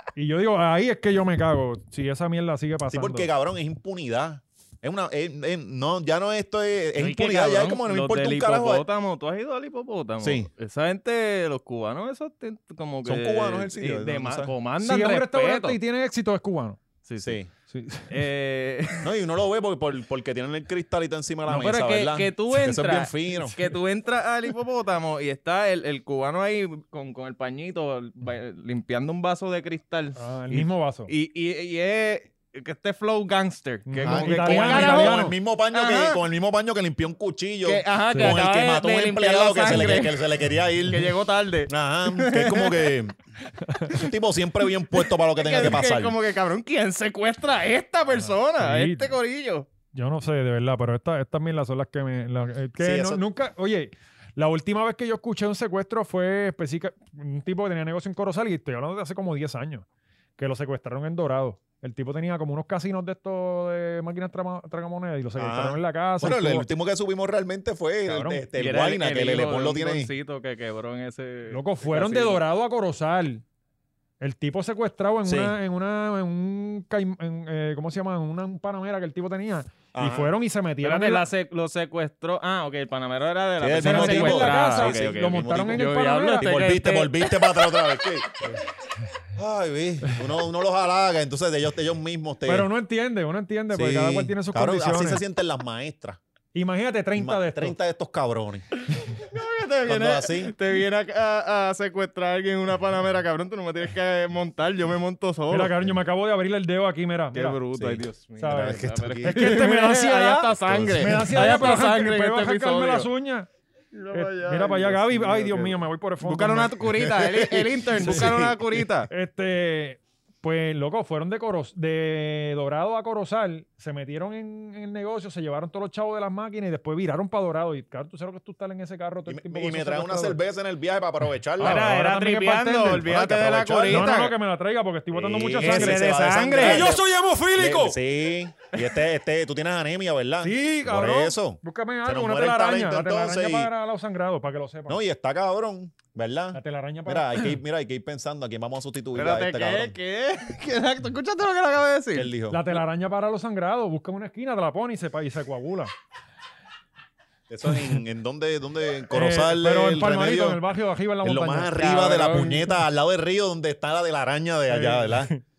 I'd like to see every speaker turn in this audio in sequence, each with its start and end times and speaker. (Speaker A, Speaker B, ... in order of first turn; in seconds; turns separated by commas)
Speaker A: 0.1-3.3, Speaker B: 2.9-8.8, Speaker C: 7.0-15.8, Speaker B: 10.2-10.5, Speaker B: 13.0-14.5, Speaker A: 14.8-16.8, Speaker C: 17.1-17.4, Speaker B: 17.2-17.5, Speaker A: 17.7-18.1, Speaker C: 18.1-19.1, Speaker B: 19.0-23.6, Speaker C: 21.5-36.2, Speaker A: 30.2-31.1, Speaker A: 33.9-35.3, Speaker B: 34.0-41.1, Speaker C: 37.6-42.9, Speaker A: 38.1-38.4, Speaker B: 41.7-43.1, Speaker C: 43.8-44.1, Speaker B: 43.9-46.1, Speaker C: 44.9-49.7, Speaker A: 48.6-49.1, Speaker A: 49.9-59.9, Speaker B: 52.8-53.2, Speaker A: 60.4-66.7, Speaker B: 65.4-70.1, Speaker A: 68.0-68.4, Speaker C: 68.6-72.4, Speaker A: 71.5-73.4, Speaker A: 74.2-81.2, Speaker B: 75.2-75.5, Speaker B: 79.9-80.3, Speaker C: 80.8-88.0, Speaker B: 83.6-85.9, Speaker A: 83.8-86.5, Speaker B: 86.4-88.4, Speaker B: 89.3-92.7, Speaker A: 92.5-95.2, Speaker B: 93.7-96.2, Speaker A: 96.5-97.7, Speaker B: 97.2-98.6, Speaker C: 98.9-105.8, Speaker B: 99.8-100.5, Speaker A: 105.5-107.6, Speaker C: 107.3-113.1, Speaker B: 107.7-109.5, Speaker A: 108.4-113.5, Speaker B: 110.6-111.3, Speaker C: 113.9-119.1, Speaker A: 114.1-116.7, Speaker B: 116.9-118.9, Speaker A: 118.0-118.3, Speaker A: 119.1-130.4, Speaker B: 129.3-131.9, Speaker A: 131.6-133.2, Speaker C: 131.6-134.3, Speaker B: 133.0-134.1, Speaker A: 133.8-138.0, Speaker B: 135.1-137.0, Speaker C: 135.6-136.9, Speaker B: 137.5-143.7, Speaker A: 140.4-145.0, Speaker B: 144.9-149.9, Speaker A: 146.5-147.5, Speaker C: 149.1-152.3, Speaker B: 152.1-152.7, Speaker A: 152.5-155.9, Speaker B: 157.5-160.6, Speaker A: 159.1-162.7, Speaker B: 161.2-165.3, Speaker C: 161.8-162.6, Speaker A: 164.7-165.4